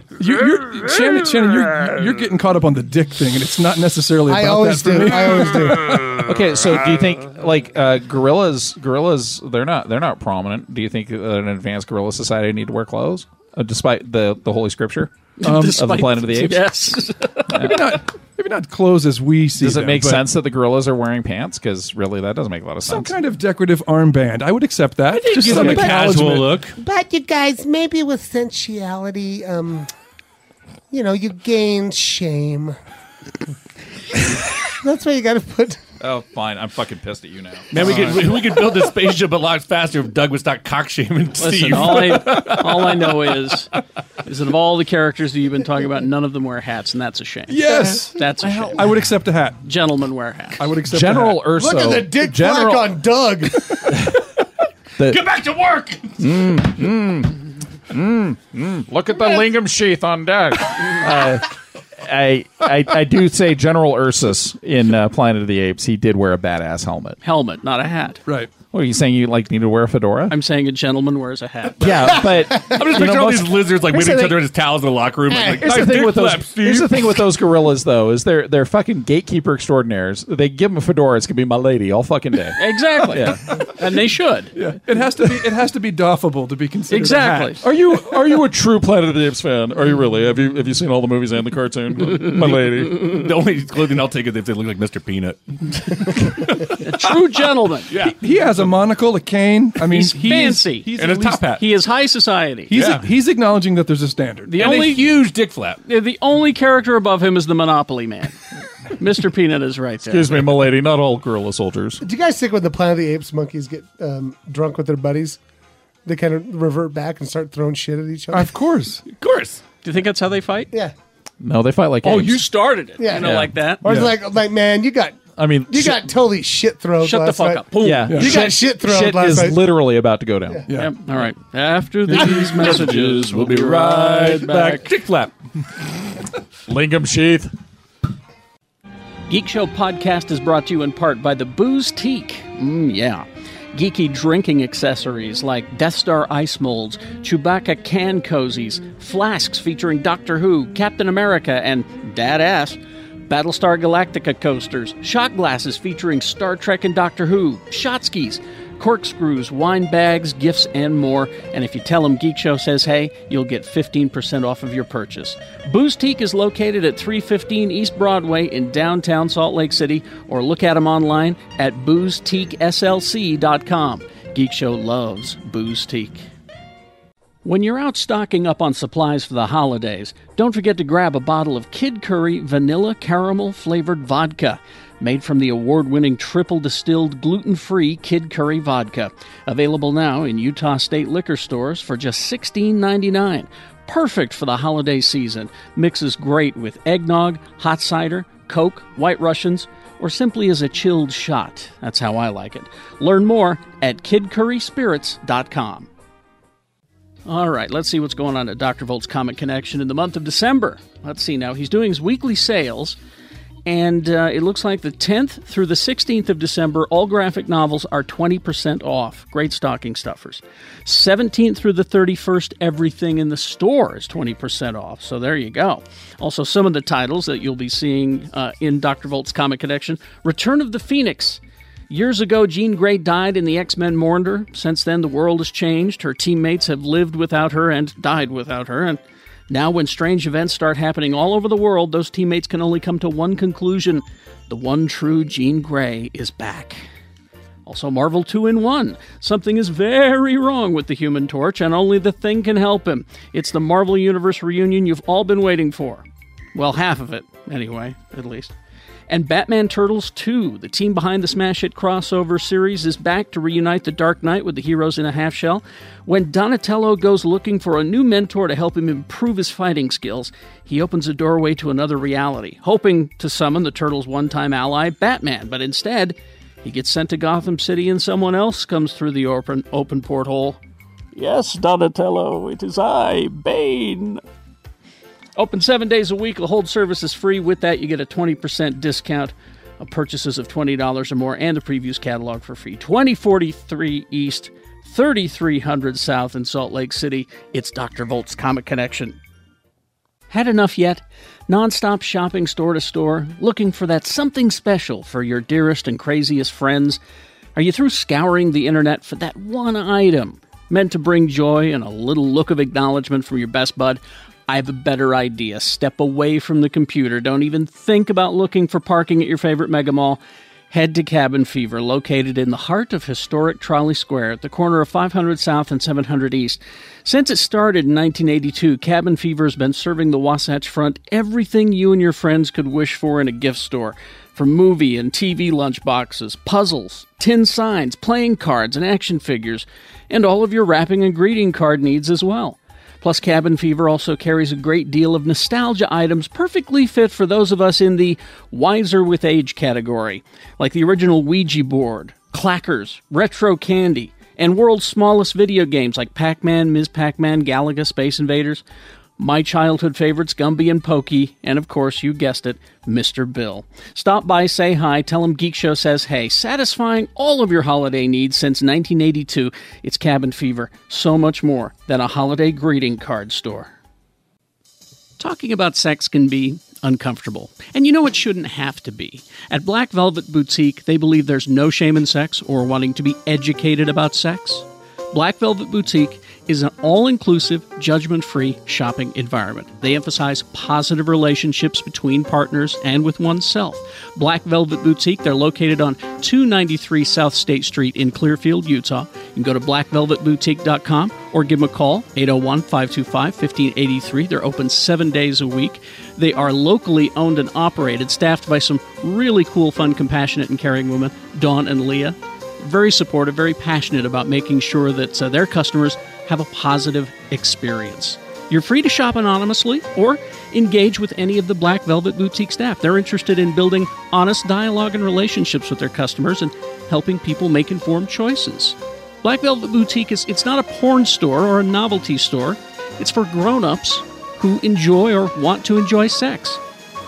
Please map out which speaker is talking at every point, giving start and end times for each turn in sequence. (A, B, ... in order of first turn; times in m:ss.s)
0:00.2-0:06.2 A
0:04.3-0:06.1 B
0:06.1-0:16.7 C
0:15.4-0:18.0 D
0:15.4-0:15.9 A
0:17.5-0:18.0 C
0:17.5-0:20.2 A
0:19.6-0:23.1 C
0:22.9-0:26.6 A
0:25.3-0:26.0 D
0:25.3-0:26.8 E
0:26.8-0:29.9 B
0:30.9-0:32.8 B
0:34.7-0:35.8 B
0:36.0-0:38.3 C
0:37.7-0:43.4 E
0:37.8-0:38.2 A
0:41.4-0:43.7 D
0:44.2-0:49.1 D
0:47.5-0:49.6 A
0:49.6-0:50.7 D
0:50.6-0:51.5 A
0:50.9-0:52.9 C
0:51.5-0:53.7 B
0:53.9-0:54.2 C
0:55.0-0:55.2 C
0:55.1-0:56.1 E
0:56.2-1:07.2 C
1:07.2-1:08.2 D
1:08.7-1:10.4 C
1:10.3-1:12.2 D
1:11.8-1:14.4 C
1:12.5-1:12.8 B
1:12.6-1:17.0 E
1:15.3-1:15.7 B
1:15.6-1:23.6 C
1:22.6-1:24.5 D
1:24.6-1:27.6 A
1:26.9-1:27.6 D
1:27.6-1:33.1 C
1:33.0-1:36.6 E
1:36.8-1:37.9 D
1:37.9-1:38.2 E
1:38.0-1:41.6 A
1:39.9-1:41.0 D
1:41.0-1:41.6 E
1:41.5-1:42.8 D
1:42.7-1:44.9 A
1:42.7-1:43.0 E
1:44.5-1:45.2 D
1:44.6-1:45.8 E
1:45.8-1:48.4 D
1:49.0-1:50.5 D
1:50.1-1:52.0 C
1:52.0-1:55.4 B
1:56.1-1:58.6 B
1:58.3-1:59.0 A
1:59.2-1:59.6 E
1:59.8-2:00.7 D
2:01.4-2:02.4 C
2:02.0-2:03.8 D
2:03.0-2:09.6 B
2:03.1-2:03.5 C
2:03.9-2:04.1 A
2:05.4-2:06.1 C
2:07.0-2:08.2 D
2:07.8-2:10.6 C
2:08.1-2:08.5 A
2:10.7-2:11.0 A
2:10.8-2:14.9 D
2:12.5-2:15.3 E
2:16.7-2:17.5 C
2:19.3-2:56.2 D
2:57.4-3:25.9 D
3:27.3-3:33.0 D
3:33.7-4:06.8 D
4:07.7-4:18.5 D
4:19.1-4:40.6 D
4:41.2-4:44.2 D
4:45.4-4:59.2 D
5:00.3-5:07.0 D
5:07.6-5:58.6 D
5:59.2-6:13.7 D
6:15.2-7:16.6 D